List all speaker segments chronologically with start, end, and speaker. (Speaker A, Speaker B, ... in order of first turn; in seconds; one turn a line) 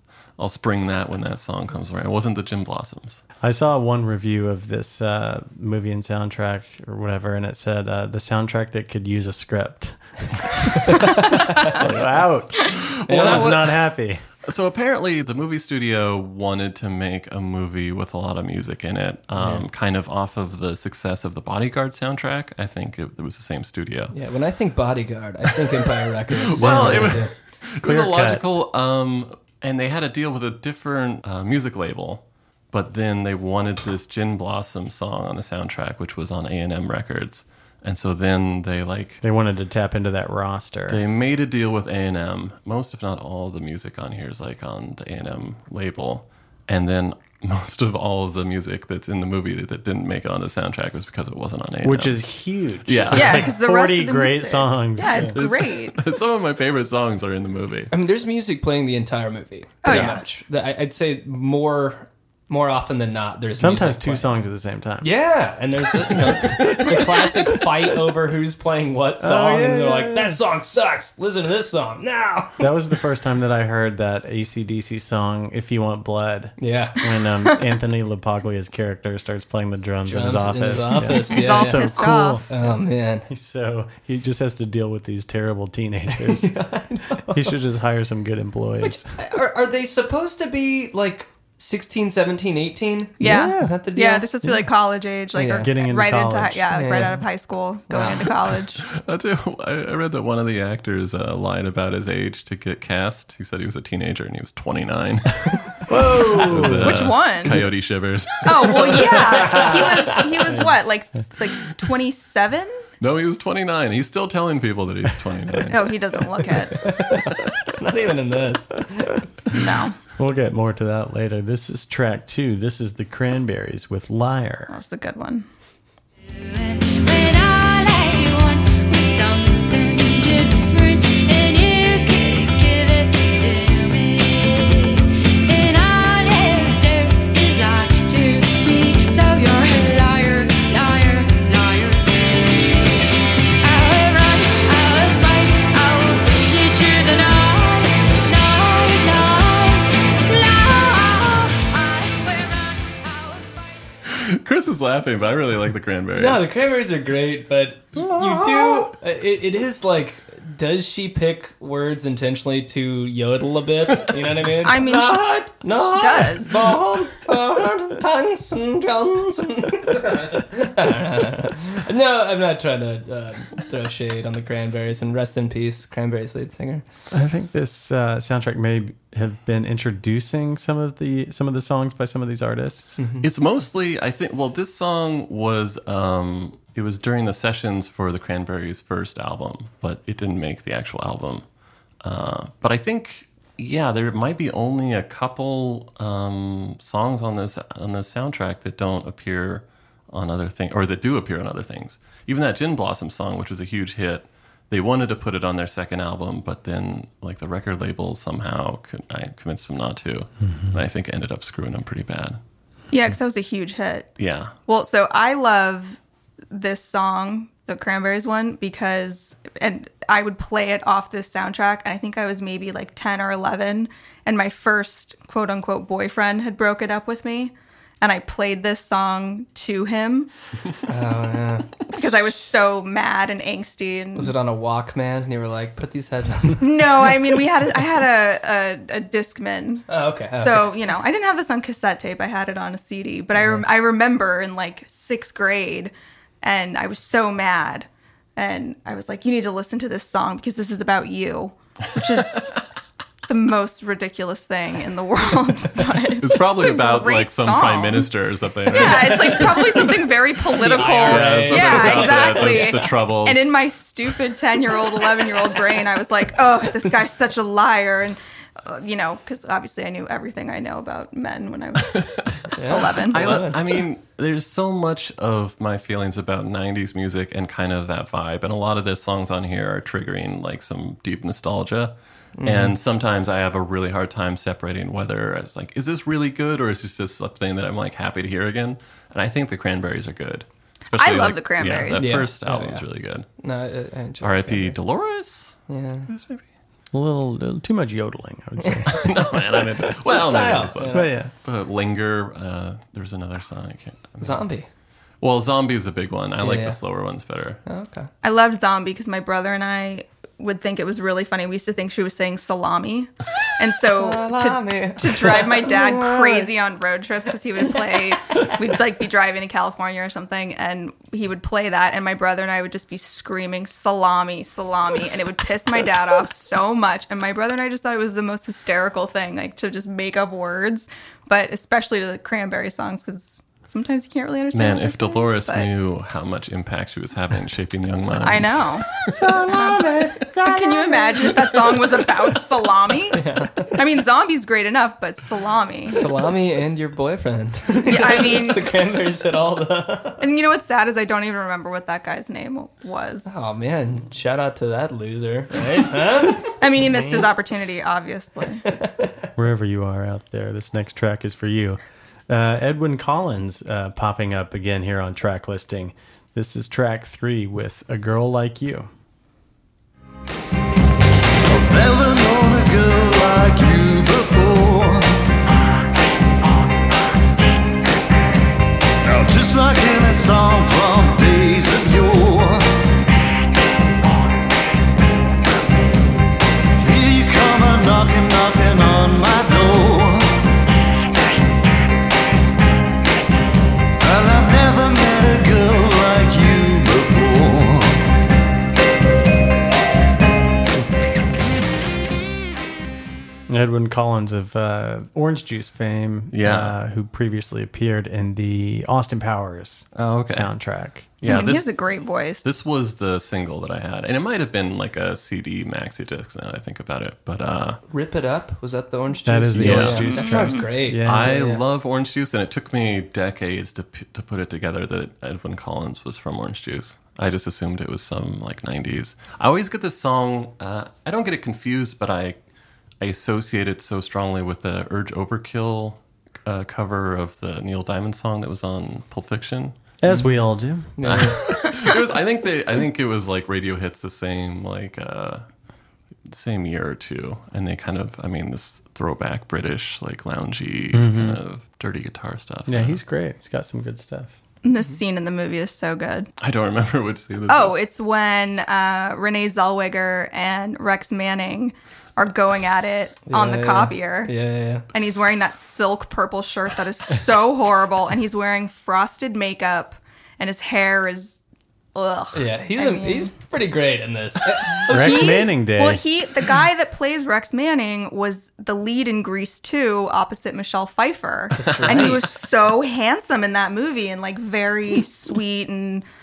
Speaker A: 0.4-3.2
Speaker B: 3.4-14.2
Speaker A: 13.0-13.8
Speaker C: 13.1-13.4
Speaker A: 14.5-24.1
Speaker B: 19.4-19.6
Speaker C: 24.1-27.3
Speaker A: 26.5-39.2
Speaker B: 26.6-27.2
Speaker B: 27.8-28.4
Speaker B: 39.2-41.0
Speaker A: 40.9-52.3
Speaker B: 51.8-55.4
Speaker A: 52.9-53.5
Speaker D: 53.1-56.0
Speaker A: 55.1-57.9
Speaker C: 57.9-64.3
Speaker D: 59.8-60.2
Speaker B: 59.9-60.2
Speaker B: 63.6-65.1
Speaker C: 65.0-72.7
Speaker B: 69.2-70.4
Speaker B: 72.6-82.8
Speaker C: 76.6-77.0
Speaker C: 80.1-83.3
Speaker D: 81.3-82.4
Speaker B: 83.3-86.5
Speaker C: 86.1-87.6
Speaker B: 87.3-89.1
Speaker C: 88.8-94.3
Speaker D: 93.2-98.8
Speaker B: 93.2-93.8
Speaker C: 95.3-95.7
Speaker B: 95.5-96.7
Speaker C: 96.7-97.2
Speaker C: 97.9-98.4
Speaker A: 99.0-105.6
Speaker B: 105.9-107.1
Speaker A: 106.3-109.2
Speaker D: 106.8-107.6
Speaker D: 108.5-112.8
Speaker C: 108.6-110.5
Speaker A: 113.0-115.9
Speaker D: 115.7-116.7
Speaker C: 116.7-119.2
Speaker D: 119.5-120.0
Speaker B: 120.2-124.7
Speaker D: 124.7-125.5
Speaker E: 126.2-142.9
Speaker E: 143.6-153.9
Speaker A: 154.2-156.5
Speaker C: 156.2-176.8
Speaker D: 164.6-166.6
Speaker B: 177.1-183.0
Speaker C: 183.0-183.3
Speaker A: 183.2-191.4
Speaker A: 192.0-212.4
Speaker D: 212.9-214.1
Speaker A: 214.2-214.6
Speaker D: 214.7-216.0
Speaker D: 216.5-230.3
Speaker C: 230.9-231.8
Speaker D: 231.9-234.3
Speaker C: 234.2-237.3
Speaker D: 236.6-252.5
Speaker C: 239.9-240.8
Speaker C: 243.4-243.7
Speaker D: 253.3-258.1
Speaker A: 256.2-259.6
Speaker C: 258.7-262.9
Speaker D: 258.7-272.1
Speaker A: 260.8-263.5
Speaker C: 272.5-273.8
Speaker D: 272.7-273.2
Speaker A: 273.1-293.3
Speaker C: 282.4-282.8
Speaker D: 291.0-292.1
Speaker C: 292.0-292.8
Speaker C: 293.4-294.8
Speaker A: 294.2-296.4
Speaker C: 295.7-296.1
Speaker B: 296.9-299.1
Speaker A: 298.9-304.4
Speaker C: 300.0-301.1
Speaker B: 300.9-301.3
Speaker C: 304.2-304.7
Speaker A: 305.2-307.6
Speaker C: 306.4-306.8
Speaker C: 307.7-308.1
Speaker D: 308.2-335.7
Speaker C: 313.9-316.5
Speaker C: 317.9-318.5
Speaker A: 334.5-340.4
Speaker D: 338.2-338.9
Speaker B: 339.1-341.2
Speaker D: 339.5-339.8
Speaker D: 340.5-343.2
Speaker C: 343.1-343.8
Speaker D: 343.7-346.0
Speaker C: 345.9-350.2
Speaker D: 347.9-348.6
Speaker D: 350.2-353.4
Speaker C: 353.3-357.3
Speaker D: 356.6-358.6
Speaker C: 358.7-359.1
Speaker B: 359.4-368.9
Speaker F: 371.5-375.1
Speaker F: 379.1-382.7
Speaker F: 386.8-390.3
Speaker F: 394.0-398.0
Speaker B: 403.5-411.1
Speaker A: 406.3-406.8
Speaker A: 410.0-410.5
Speaker A: 411.2-411.7
Speaker D: 411.2-412.5
Speaker A: 412.4-417.8
Speaker C: 417.9-421.6
Speaker B: 419.3-421.4
Speaker A: 419.6-420.4
Speaker D: 420.1-420.5
Speaker A: 421.0-432.4
Speaker A: 433.0-439.8
Speaker B: 440.0-441.0
Speaker C: 440.1-440.3
Speaker C: 441.0-441.5
Speaker A: 441.0-445.4
Speaker A: 446.3-453.0
Speaker B: 450.9-451.4
Speaker B: 452.7-454.4
Speaker D: 454.6-456.3
Speaker A: 456.4-457.8
Speaker D: 457.5-464.3
Speaker C: 463.3-464.9
Speaker D: 464.9-471.4
Speaker D: 471.9-473.3
Speaker C: 472.4-475.5
Speaker D: 474.9-486.1
Speaker B: 474.9-476.0
Speaker C: 481.6-482.4